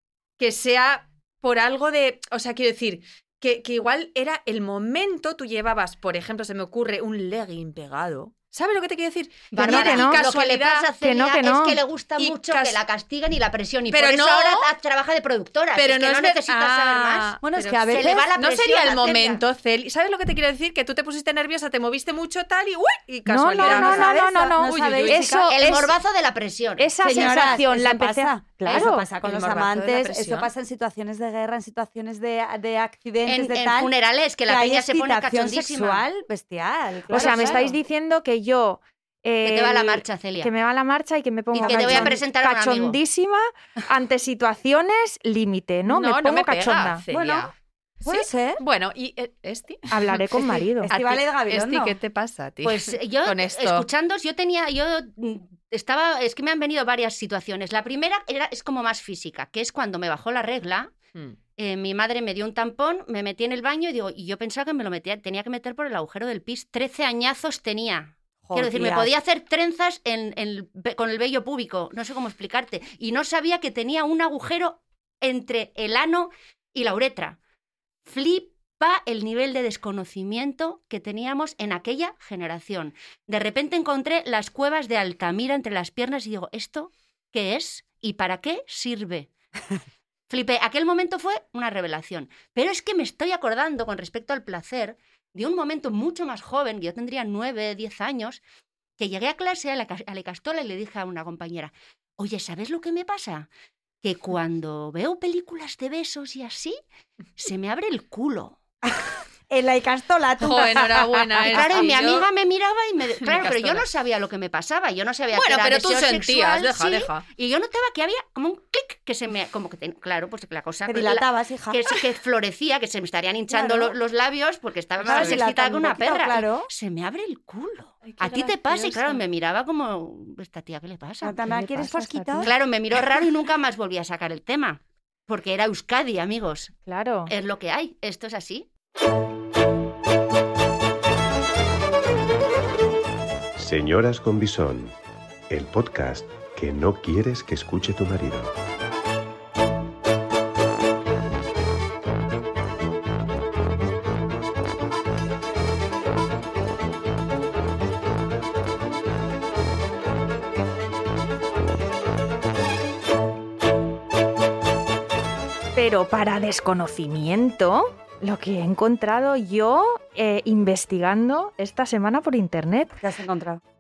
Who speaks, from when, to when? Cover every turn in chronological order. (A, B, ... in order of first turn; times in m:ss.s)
0:00.4-0:10.9 A
0:09.5-0:19.4 B
0:09.6-0:10.2 C
0:11.0-0:11.8 C
0:12.2-0:12.8 A
0:13.9-0:14.7 A
0:15.8-0:25.4 A
0:17.4-0:18.3 D
0:23.3-0:25.9 C
0:23.6-0:25.5 D
0:25.5-0:27.6 B
0:26.8-0:29.0 C
0:27.0-0:33.9 D
0:29.2-0:30.5 A
0:33.3-0:36.0 B
0:34.5-0:37.8 D
0:37.1-0:47.0 C
0:37.1-0:37.6 A
0:39.4-0:40.5 B
0:41.5-0:43.0 B
0:41.6-0:42.1 D
0:45.9-0:47.5 A
0:47.1-0:47.5 D
0:48.0-0:48.6 D
0:48.0-0:53.9 A
0:49.9-0:50.9 C
0:50.8-0:52.0 D
0:52.6-1:00.9 B
1:01.6-1:17.4 B
1:08.4-1:09.1 D
1:18.0-1:29.3 B
1:30.3-1:38.4 B
1:39.0-1:43.5 B
1:44.0-1:46.8 B
1:47.4-1:48.6 B
1:48.8-1:51.9 D
1:50.4-1:52.3 A
1:51.4-2:11.4 B
1:53.2-1:53.8 A
1:55.3-1:57.3 A
2:00.9-2:01.8 D
2:03.5-2:04.0 D
2:05.0-2:05.4 A
2:05.0-2:06.7 D
2:08.0-2:09.2 A
2:11.2-2:12.5 D
2:11.5-2:12.5 C
2:12.4-2:16.7 B
2:16.9-2:17.3 C
2:17.3-2:18.7 B
2:23.6-2:25.0 E
2:25.5-2:28.5 E
2:45.8-2:53.0 C
2:53.0-2:53.6 D